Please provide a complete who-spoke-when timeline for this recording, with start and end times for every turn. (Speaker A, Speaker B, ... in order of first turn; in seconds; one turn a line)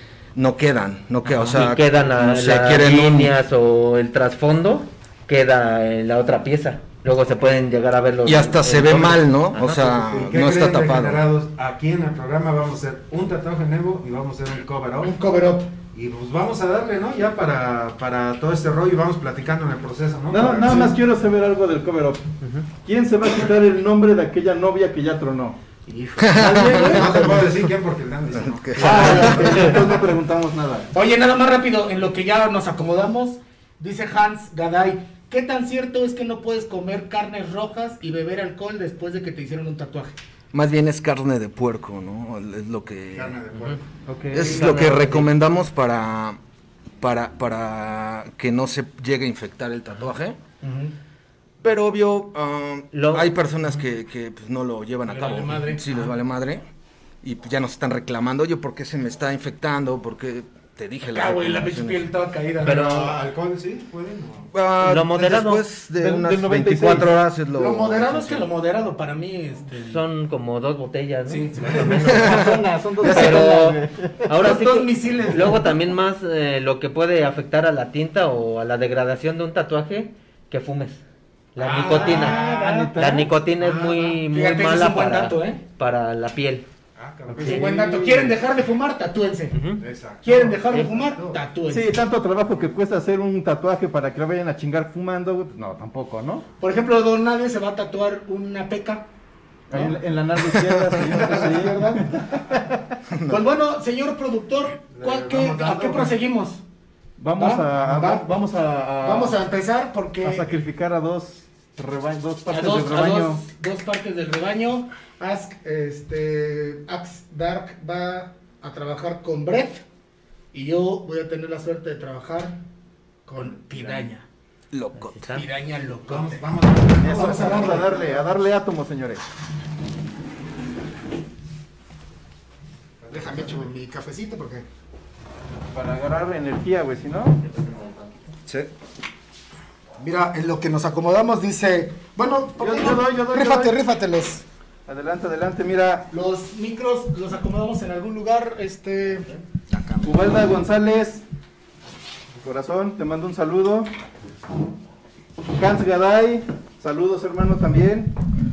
Speaker A: 0.3-3.3
Speaker B: 1.2-9.9
Speaker A: 8.2-11.2
Speaker C: 9.7-15.2
Speaker D: 15.0-15.7
Speaker C: 15.9-20.9
Speaker E: 20.3-22.2
Speaker D: 20.7-20.9
Speaker E: 22.8-25.6
Speaker A: 26.2-27.4
Speaker E: 26.3-27.4
Speaker C: 26.8-29.8
Speaker A: 28.3-29.5
Speaker D: 28.8-30.0
Speaker E: 28.8-30.9
Speaker D: 30.9-40.2
Speaker A: 40.5-43.4
Speaker C: 43.1-43.8
Speaker E: 44.1-44.5
Speaker A: 44.3-46.4
Speaker B: 44.3-45.3
Speaker A: 47.0-50.4
Speaker D: 50.6-50.9
Speaker A: 51.6-56.6
Speaker B: 52.9-53.3
Speaker D: 55.1-56.1
Speaker A: 57.2-62.1
Speaker D: 61.1-62.9
Speaker B: 62.6-63.2
Speaker C: 62.6-64.5
Speaker A: 64.5-68.5
Speaker B: 64.8-65.6
Speaker E: 66.0-67.1
Speaker D: 67.5-70.0
Speaker B: 69.7-72.3
Speaker D: 71.3-73.5
Speaker E: 71.8-74.3
Speaker A: 72.0-72.5
Speaker B: 73.0-81.0
Speaker D: 74.3-75.7
Speaker B: 81.5-82.4
Speaker D: 81.6-83.0
Speaker E: 81.9-83.3
Speaker B: 83.0-86.7
Speaker D: 83.6-85.6
Speaker C: 87.0-87.7
Speaker E: 87.3-88.3
Speaker D: 87.4-89.6
Speaker B: 89.5-89.8
Speaker C: 89.8-91.4
Speaker D: 90.2-91.9
Speaker E: 91.7-96.4
Speaker D: 96.6-99.1
Speaker E: 99.7-102.9
Speaker D: 101.0-102.2
Speaker A: 103.1-103.4
Speaker D: 103.3-106.6
Speaker C: 104.9-106.1
Speaker E: 107.2-109.4
Speaker D: 107.4-108.2
Speaker D: 109.0-110.5
Speaker E: 110.2-113.4
Speaker D: 112.5-119.8
Speaker D: 120.5-122.6
Speaker D: 123.2-124.2
Speaker C: 123.7-124.1
Speaker A: 124.7-125.3
Speaker B: 125.0-125.5
Speaker D: 125.2-126.4
Speaker C: 126.1-128.2
Speaker D: 127.0-128.1
Speaker E: 127.0-129.2
Speaker C: 133.0-133.7
Speaker D: 133.1-134.6
Speaker E: 135.7-137.4
Speaker B: 137.4-138.3
Speaker D: 140.0-144.4
Speaker E: 142.6-143.8
Speaker E: 144.9-146.1
Speaker D: 146.1-149.3
Speaker C: 149.7-150.3
Speaker E: 150.0-151.2
Speaker E: 152.3-153.9
Speaker E: 155.5-158.1